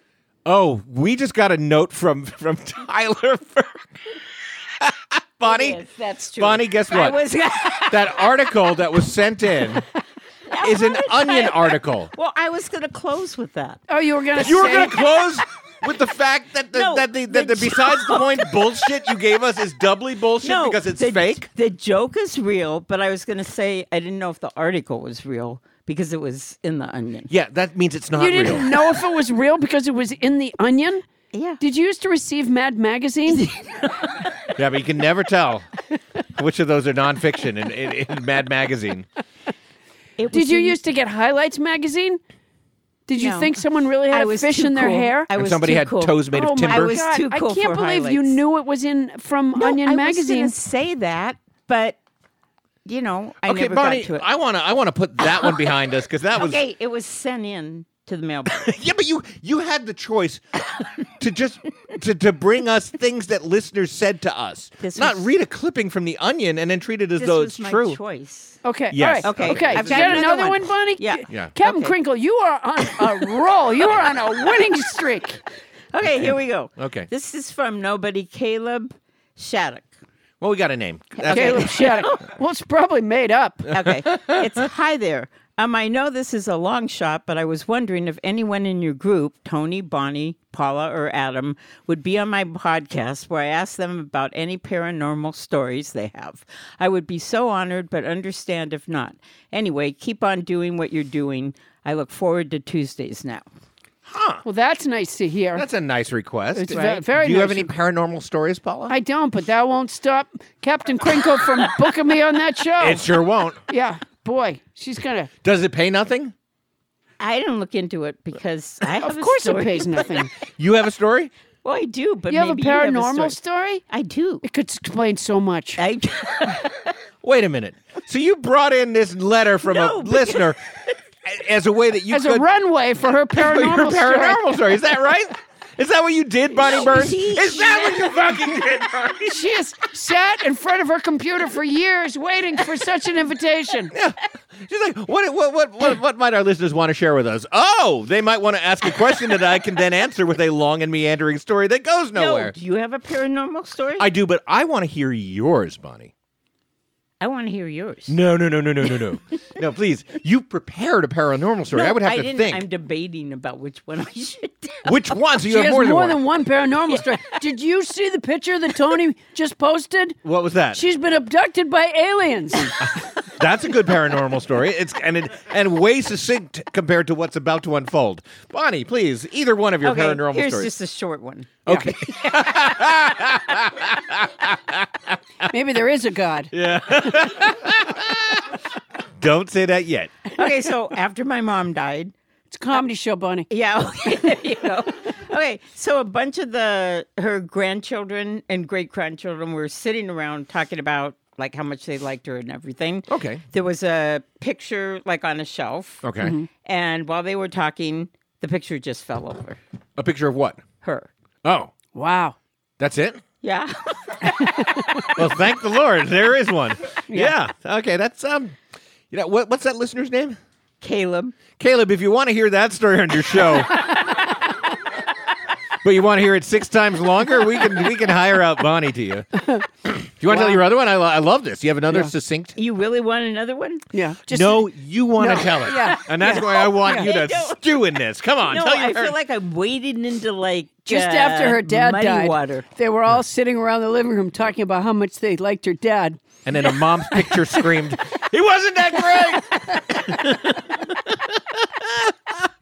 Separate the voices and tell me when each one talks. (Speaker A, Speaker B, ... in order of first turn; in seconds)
Speaker A: 0.4-4.1, 4.8-5.8, 6.3-7.2, 7.8-9.8, 10.6-12.1, 14.3-21.5, 27.3-28.8, 34.5-35.7, 36.3-39.1, 45.3-47.0, 53.4-56.6, 58.5-60.4, 61.2-68.0, 68.9-70.3, 71.3-71.5, 76.1-77.1, 80.4-82.1, 83.7-84.4, 104.1-104.4, 105.5-108.9, 112.8-113.6, 115.4-116.3, 120.5-121.3, 127.2-130.6, 131.2-132.5, 133.3-139.4, 143.9-152.5, 154.0-156.1, 158.1-162.6, 164.8-166.2, 170.2-170.8, 172.8-180.7, 181.7-185.5, 186.5-188.4, 189.2-190.3, 203.1-203.4, 206.0-206.3, 210.0-210.6, 211.4-211.7, 212.8-213.2, 215.0-218.5, 219.1-220.4, 221.6-224.2, 225.8-229.2, 229.8-232.6, 234.3-239.1, 246.4-252.3
Speaker B: 5.4-8.2, 10.5-13.8, 16.7-19.1, 20.4-27.3, 31.3-31.6, 33.3-34.2, 40.2-40.8, 43.1-48.4, 49.6-52.0, 52.8-54.2, 56.3-58.6, 64.8-65.3, 67.2-68.6, 69.2-71.9, 75.9-79.9, 81.1-82.3, 83.7-103.4, 106.7-107.0, 117.2-120.3, 121.6-123.4, 123.9-124.4, 125.8-126.9, 129.6-130.5, 136.6-138.1, 152.1-154.1, 157.2-158.1, 161.7-165.0, 179.8-182.7, 190.3-192.1, 193.5-209.6, 210.8-211.1, 213.4-214.7, 220.8-221.4, 232.6-233.8, 236.1-242.6
Speaker C: 13.9-14.9, 28.1-31.0, 31.6-33.5, 40.3-42.2, 43.1-45.3, 46.3-50.5, 68.6-75.4, 81.3-83.7, 104.4-105.7, 106.5-107.7, 108.9-113.1, 113.7-115.3, 119.0-120.3, 122.3-123.8, 124.4-125.8, 132.1-134.4, 139.3-143.9, 165.5-170.2, 170.7-172.8, 185.5-186.5, 192.5-193.5, 206.2-206.5, 211.9-212.3, 214.5-215.1, 217.1-217.3, 229.3-229.6, 230.2-230.6, 233.9-237.1, 240.8-246.2